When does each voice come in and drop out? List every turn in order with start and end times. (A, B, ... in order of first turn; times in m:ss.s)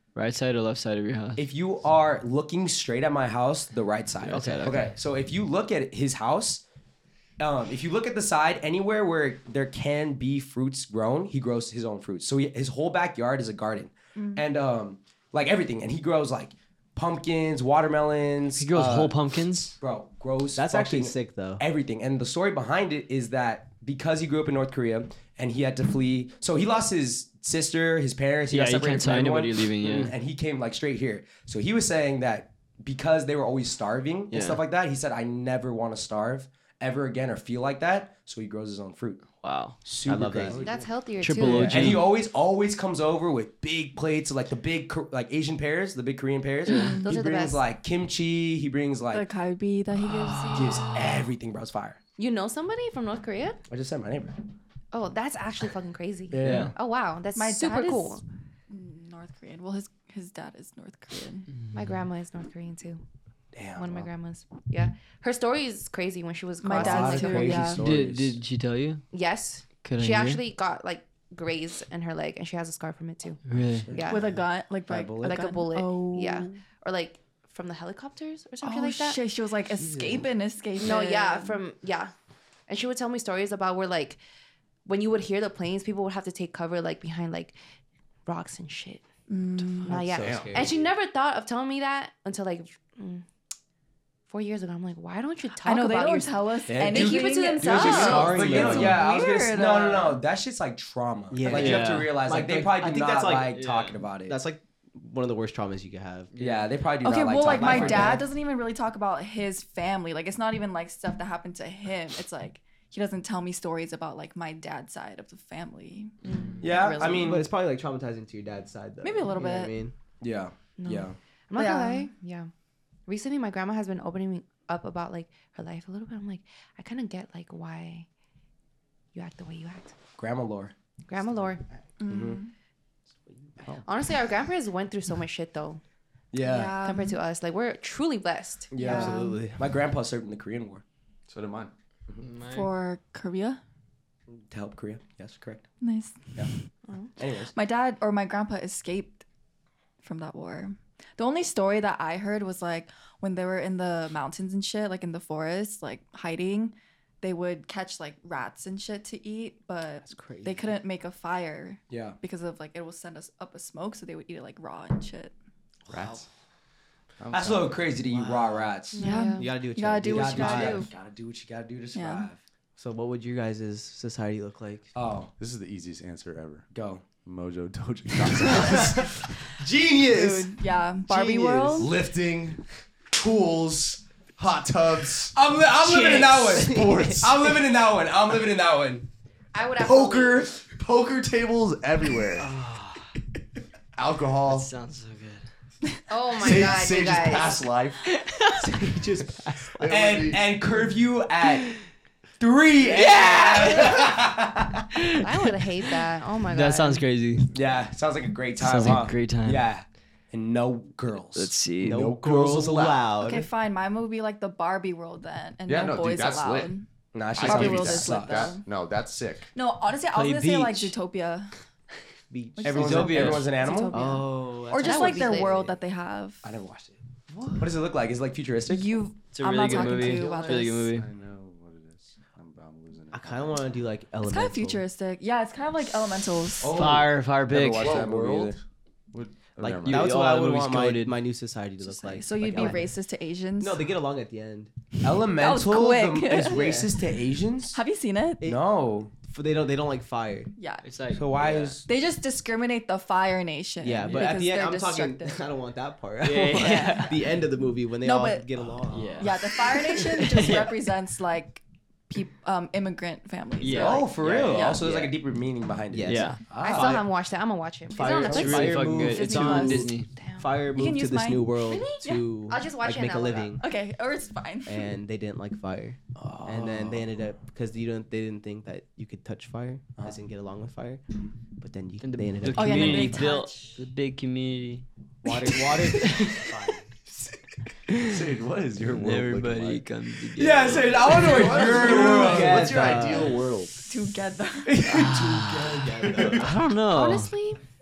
0:00.2-0:01.4 A
0:01.4-0:06.6 B
0:04.3-0:04.9 A
0:04.3-0:04.8 C
0:07.4-0:19.2 B
0:14.2-0:14.4 D
0:18.6-0:19.8 A
0:19.8-0:39.2 B
0:20.6-0:21.6 C
0:28.5-0:30.1 A
0:34.3-0:34.6 A
0:39.4-0:39.8 A
0:39.8-0:40.6 B
0:40.0-0:40.6 C
0:40.5-0:40.9 E
0:40.6-0:41.9 F
0:41.2-0:42.1 A
0:41.5-0:49.3 B
0:46.7-0:46.9 A
0:46.7-0:47.2 D
0:46.9-0:47.6 F
0:49.1-0:51.0 D
0:50.5-0:52.0 B
0:52.2-0:53.6 F
0:53.7-0:54.4 B
0:54.9-0:58.2 F
0:56.3-0:56.7 B
0:56.4-0:56.7 A
0:57.4-1:01.5 D
1:01.7-1:03.0 F
1:03.5-1:04.1 B
1:03.8-1:07.7 F
1:06.6-1:07.9 D
1:06.7-1:08.4 B
1:07.4-1:07.7 C
1:07.8-1:09.0 A
1:09.1-1:13.4 F
1:09.8-1:10.4 A
1:13.5-1:13.9 A
1:13.8-1:14.3 B
1:13.9-1:14.3 F
1:14.1-1:16.6 D
1:14.9-1:15.4 B
1:15.2-1:19.2 F
1:18.6-1:21.6 D
1:19.8-1:20.2 B
1:20.8-1:22.1 F
1:22.7-1:24.2 F
1:24.9-1:27.6 F
1:28.3-1:29.0 F
1:29.3-1:30.0 D
1:29.8-1:33.2 F
1:29.9-1:30.7 E
1:30.1-1:30.8 C
1:34.3-1:38.6 F
1:35.6-1:40.2 D
1:36.7-1:44.4 B
1:37.9-1:39.0 C
1:41.3-1:43.6 C
1:41.5-1:42.1 A
1:43.5-1:44.0 A
1:44.3-1:46.3 C
1:46.3-1:46.7 A
1:46.4-1:48.3 B
1:47.0-1:57.4 D
1:47.5-1:48.2 C
1:56.2-1:56.6 F
1:56.3-1:56.6 A
1:56.6-1:57.5 B
1:57.1-1:59.9 C
1:59.0-1:59.8 D
2:00.2-2:01.2 B
2:00.8-2:02.5 F
2:01.6-2:02.1 D
2:03.1-2:08.1 F
2:09.1-2:09.9 F
2:10.2-2:10.7 B
2:11.1-2:11.6 F
2:12.0-2:12.5 D
2:12.1-2:12.4 B
2:13.8-2:15.8 F
2:16.3-2:16.8 B
2:16.4-2:17.2 D
2:16.8-2:18.7 F
2:18.7-2:20.8 B
2:18.8-2:19.5 D
2:18.9-2:19.6 C
2:21.3-2:21.7 E
2:22.2-2:22.7 A
2:22.5-2:23.6 D
2:24.5-2:25.6 B
2:25.8-2:26.6 D
2:27.2-2:27.5 B
2:27.5-2:29.2 D
2:30.0-2:45.3 D
2:40.1-2:40.5 C
2:41.9-2:42.2 B
2:45.9-2:46.2 E
2:47.2-2:48.0 E
2:47.3-2:49.1 B
2:49.0-2:49.5 F
2:49.0-2:50.9 D
2:49.4-2:50.8 C
2:50.0-2:52.4 B
2:51.9-2:52.3 D
2:52.8-2:54.9 C
2:55.0-2:55.3 B
2:55.4-2:56.7 E
2:56.7-2:57.0 B
2:57.2-2:59.2 E
2:58.5-3:00.5 B
3:00.0-3:01.9 D
3:01.0-3:01.8 C
3:01.8-3:05.4 E
3:05.3-3:09.1 B
3:05.9-3:07.1 C
3:06.2-3:07.5 E
3:09.5-3:10.4 F
3:09.8-3:12.5 E
3:12.4-3:13.1 A
3:14.0-3:14.7 E
3:14.4-3:15.5 A
3:16.1-3:17.6 F
3:16.4-3:18.1 E
3:18.1-3:18.6 A
3:18.6-3:19.9 C
3:19.7-3:20.5 E
3:19.9-3:21.7 B
3:22.4-3:24.9 B
3:23.4-3:23.9 A
3:24.9-3:25.3 A
3:25.2-3:27.0 F
3:26.5-3:27.5 A
3:27.5-3:31.5 B
3:28.6-3:29.7 A
3:31.4-3:32.1 A
3:31.8-3:33.5 C
3:31.8-3:33.0 E
3:33.2-3:38.6 D
3:35.7-3:36.7 E
3:37.1-3:38.6 B
3:37.3-3:39.5 E
3:39.6-3:41.5 D
3:40.1-3:41.0 A
3:42.3-3:43.2 C
3:42.6-3:46.4 D
3:42.6-3:44.0 B
3:42.8-3:43.5 A
3:43.9-3:45.7 C
3:44.8-3:45.6 F
3:46.4-3:47.0 B
3:47.6-3:49.0 B
3:48.7-3:50.9 D
3:49.3-3:51.1 A
3:50.0-3:53.8 E
3:53.1-3:54.8 C
3:54.2-3:56.8 D
3:56.6-3:58.6 B
3:56.7-3:58.0 A
3:56.8-3:57.0 E
3:57.8-3:58.6 E
3:59.1-4:00.2 E
3:59.6-4:02.9 C
3:59.8-4:01.2 A
4:01.8-4:03.9 D
4:03.6-4:04.7 C
4:05.0-4:07.8 B
4:05.3-4:06.8 D
4:06.5-4:06.9 C
4:07.7-4:08.5 D
4:08.4-4:09.1 B
4:09.2-4:10.5 C
4:10.6-4:11.0 D
4:10.8-4:11.7 A
4:11.1-4:11.9 B
4:11.8-4:15.5 D
4:13.8-4:19.6 C
4:16.2-4:17.2 A
4:16.5-4:17.4 D
4:18.0-4:18.6 D
4:18.9-4:20.8 A
4:19.2-4:24.8 D
4:23.6-4:24.1 A
4:23.7-4:27.0 B
4:24.2-4:25.2 C
4:25.9-4:27.0 C
4:26.1-4:26.4 A
4:26.6-4:28.8 F
4:27.9-4:33.6 C
4:28.3-4:30.1 A
4:28.3-4:28.7 B
4:29.0-4:30.0 D
4:30.2-4:30.5 F
4:30.6-4:32.2 D
4:32.5-4:33.6 F
4:33.6-4:34.9 D
4:34.7-4:41.0 C
4:36.2-4:37.1 B
4:41.6-4:43.2 C
4:42.0-4:44.9 A
4:42.5-4:43.8 D
4:45.2-4:46.0 B
4:45.2-4:46.8 C
4:45.5-4:46.7 A
4:47.9-4:48.2 A
4:48.0-4:49.8 E
4:48.9-4:51.6 A
4:50.4-4:53.2 B
4:51.2-4:53.8 E
4:51.3-4:53.4 C
4:53.8-4:54.9 D
4:54.7-4:56.6 C
4:54.8-4:57.3 A
4:55.0-4:56.3 B
4:56.0-4:56.4 E
4:56.9-4:57.6 F